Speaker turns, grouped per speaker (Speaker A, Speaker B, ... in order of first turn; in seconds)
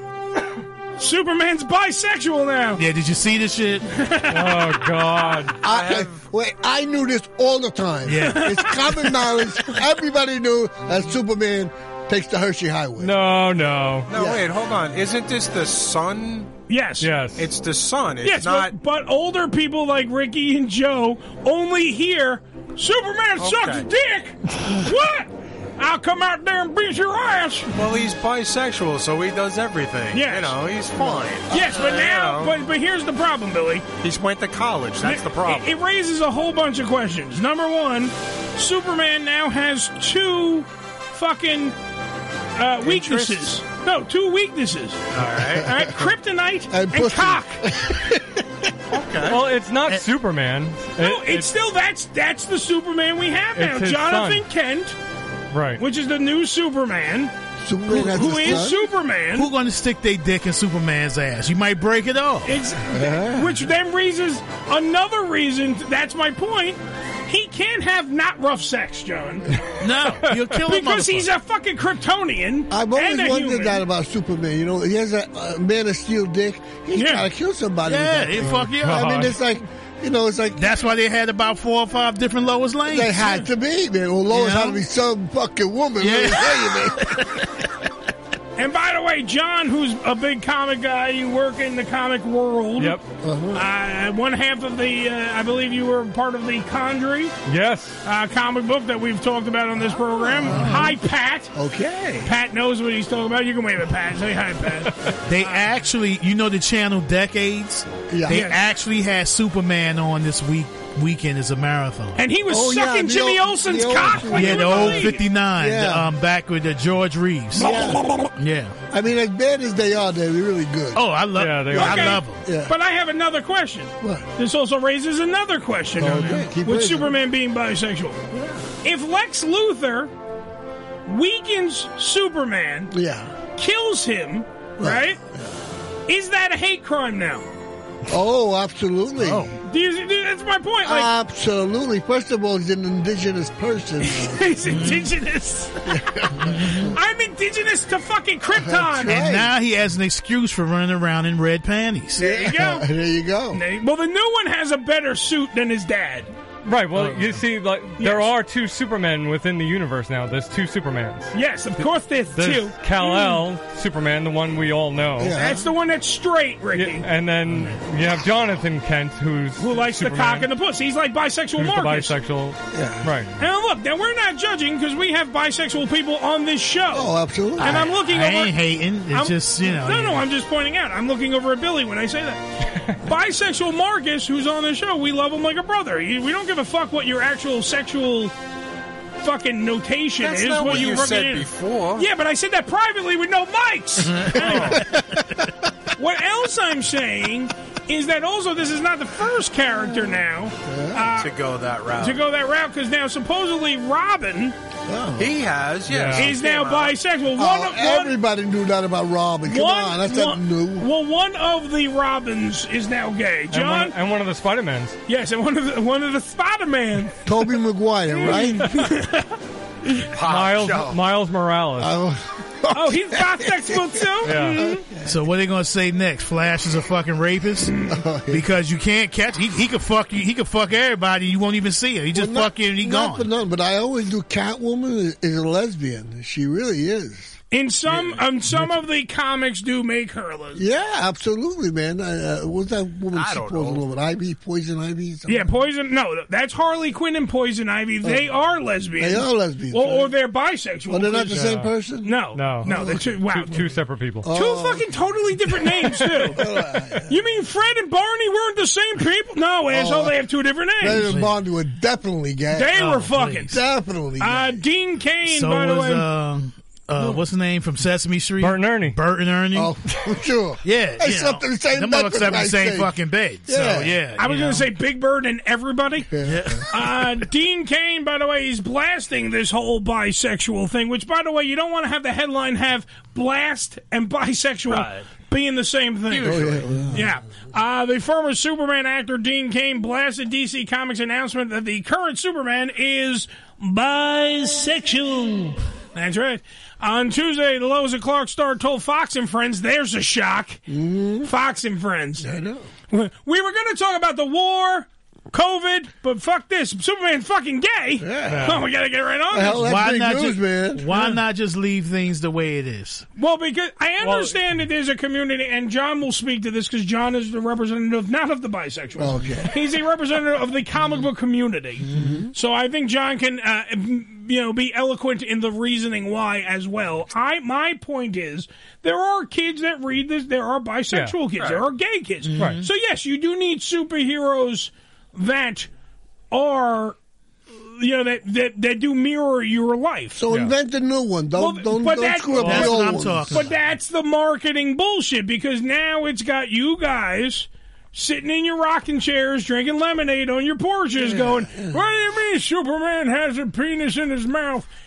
Speaker A: 1.0-2.8, 3.9-4.7, 8.2-9.4, 16.7-17.1, 18.2-27.8, 30.1-30.5, 31.5-33.9, 35.0-41.7, 42.5-45.0, 45.6-47.6, 51.0-55.0, 55.8-57.3, 57.9-59.5, 62.4-69.6, 70.7-73.8, 76.9-77.2, 88.5-93.0, 93.5-97.3, 98.0-101.5, 102.2-105.6, 108.3-108.6, 112.2-115.2, 117.6-118.0, 121.7-128.2, 128.8-130.1, 131.1-132.9, 133.6-135.2, 136.1-137.4, 139.6-141.1, 144.0-146.0, 146.6-149.2, 152.2-152.9, 153.5-156.3, 157.0-157.3, 158.0-158.3, 161.3-163.4, 165.3-167.1, 169.6-172.1, 173.4-178.5, 179.1-182.4, 183.0-188.3, 189.2-194.8, 195.9-201.3, 202.0-204.5, 206.1-208.1, 209.5-213.9, 215.1-217.2, 218.1-219.3, 222.7-224.8, 237.5-240.6, 245.3-251.4, 252.0-253.6, 254.3-256.4, 257.1-261.1, 262.5-263.6, 264.2-266.1, 274.1-276.1, 276.7-300.6, 301.2-302.3, 302.9-309.7, 313.2-335.7, 336.3-337.0, 337.5-340.2, 341.4-354.7
Speaker B: 2.8-3.9, 8.1-8.5, 58.1-58.7, 59.3-62.6, 69.8-71.3, 77.8-79.2, 80.5-83.4, 84.3-84.8, 86.0-86.8, 100.5-100.9, 105.2-112.2, 114.3-117.8, 118.4-118.8, 120.9-122.4, 139.2-139.5, 144.7-145.1, 149.0-152.4, 167.5-167.8, 177.6-180.2, 225.0-233.3, 260.9-261.3, 262.7-263.6, 265.2-269.7, 270.6-274.7, 276.2-276.7, 309.6-313.1, 321.9-322.2, 332.2-332.7, 342.4-343.5
Speaker C: 4.3-5.6, 13.0-14.1, 17.0-17.4, 49.2-51.5, 53.5-54.5, 55.5-55.8, 78.4-79.5, 92.8-93.0, 97.5-98.0, 121.3-122.2, 156.7-161.8, 162.3-165.4, 166.7-170.5, 171.6-173.3, 205.9-206.3, 213.5-215.0, 220.2-222.0, 224.2-224.7, 251.3-251.7, 252.3-254.3, 268.4-269.0, 308.3-308.6, 314.0-314.4, 330.9-331.2, 332.4-332.6
Speaker D: 5.6-6.2, 14.1-16.5, 17.4-18.7, 23.4-23.9, 27.7-32.5, 34.0-35.8, 42.8-43.5, 45.1-45.7, 48.9-49.4, 190.2-192.1, 194.3-194.8, 201.2-202.2, 205.2-206.9, 220.1-221.0, 237.9-238.2, 243.1-243.8, 284.7-285.0, 286.1-286.6, 331.4-331.6
Speaker E: 5.6-13.2, 14.1-14.4, 45.6-46.1, 46.7-48.4, 57.6-58.8, 62.9-63.6, 72.7-80.7, 82.9-87.2, 93.2-93.7, 100.4-100.9, 101.5-102.3, 108.1-108.5, 112.5-116.1, 117.5-118.0, 118.9-121.1, 122.4-122.7, 124.0-124.3, 126.0-127.1, 128.3-128.6, 132.9-133.3, 134.8-135.6, 138.1-139.5, 140.8-144.8, 145.9-146.9, 148.5-149.5, 152.2-153.6, 165.2-165.7, 172.7-173.1, 176.9-177.9, 194.5-195.2, 200.6-201.1, 204.9-205.4, 207.3-210.9, 217.2-219.0, 221.8-225.2, 227.9-228.4, 232.1-237.4, 240.5-245.5, 248.0-248.3, 249.0-250.1, 250.9-253.6, 254.2-257.2, 259.7-260.1, 260.8-262.9, 263.5-264.6, 269.5-272.9, 273.5-273.9, 276.1-276.6, 286.2-287.1, 300.7-301.3, 302.2-302.7, 308.0-308.6, 309.3-310.9, 319.0-319.5, 321.9-322.3, 340.1-343.4, 350.9-351.8